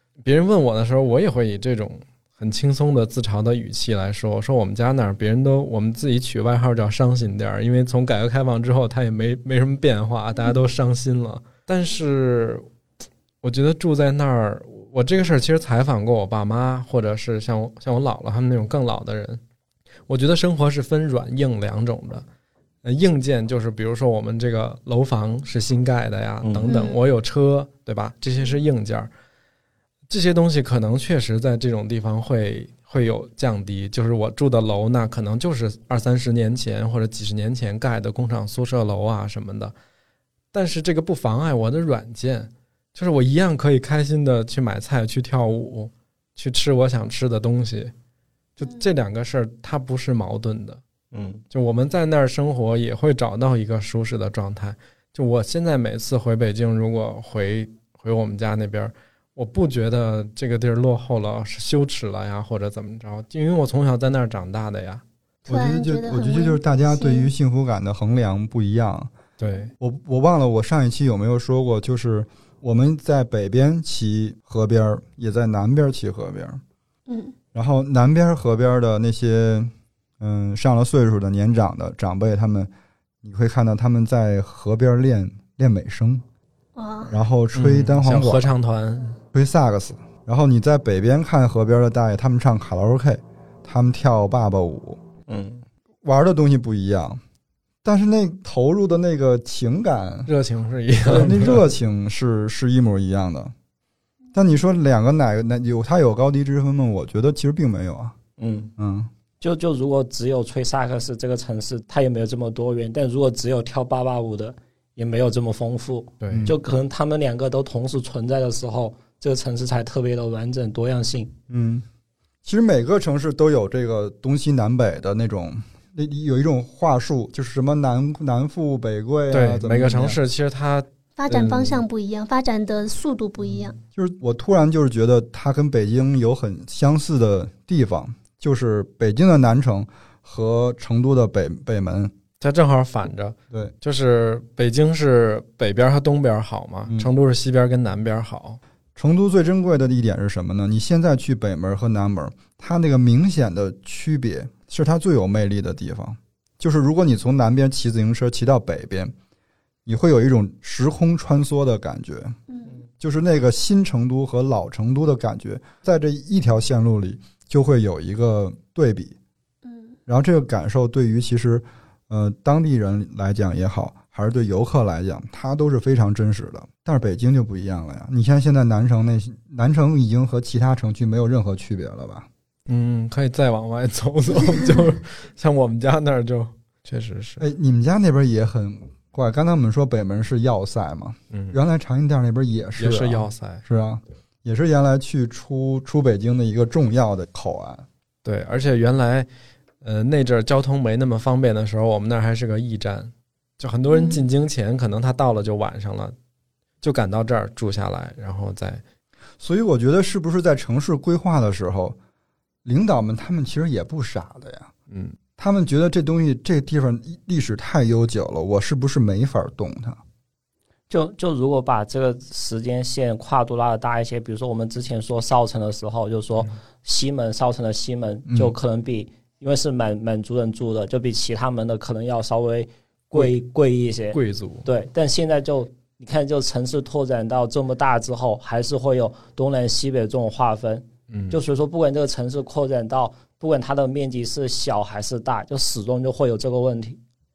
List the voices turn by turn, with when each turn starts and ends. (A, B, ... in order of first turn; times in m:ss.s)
0:00.2-0:12.6 A
0:13.4-0:19.4 A
0:20.1-0:22.2 A
0:22.8-0:29.1 A
0:26.4-0:26.7 B
0:26.7-0:27.0 C
0:30.1-0:39.7 A
0:40.5-0:47.9 A
0:48.6-0:50.8 A
0:51.1-0:51.4 B
0:51.5-1:05.0 A
1:05.5-1:07.3 C
1:05.5-1:09.1 D
1:09.4-1:09.7 A
1:09.8-1:16.6 D
1:17.1-1:17.3 C
1:17.5-1:22.7 D
1:23.2-1:26.2 D
1:26.8-1:27.2 C
1:27.1-1:28.5 D
1:27.5-1:29.2 A
1:29.3-1:35.0 D
1:35.3-1:35.6 B
1:36.0-1:37.2 D
1:37.8-1:40.3 D
1:40.3-1:41.6 A
1:41.0-1:43.5 D
1:44.3-1:48.2 D
1:48.4-1:48.7 B
1:48.8-1:49.1 D
1:49.4-2:01.3 B
1:56.2-1:56.5 A
1:56.3-1:56.6 D
2:01.5-2:01.8 D
2:02.4-2:10.2 D
2:09.3-2:11.8 A
2:11.2-2:13.8 C
2:13.9-2:22.1 D
2:22.4-2:28.6 A
2:29.0-2:39.1 D
2:39.8-2:42.4 D
2:42.5-2:42.7 C
2:43.0-2:49.1 D
2:49.6-2:50.0 C
2:50.1-3:02.3 D
3:02.7-3:07.4 A
3:07.4-3:17.8 D
3:11.3-3:11.6 A
3:12.8-3:13.6 A
3:18.2-3:19.3 A
3:19.8-3:26.1 A
3:23.9-3:24.2 C
3:26.8-3:28.8 A
3:29.4-3:32.0 D
3:32.6-3:34.7 D
3:34.9-3:35.2 A
3:35.4-3:40.0 D
3:40.9-4:07.0 B
3:48.3-3:48.5 D
3:54.1-3:54.7 A
4:01.1-4:01.4 A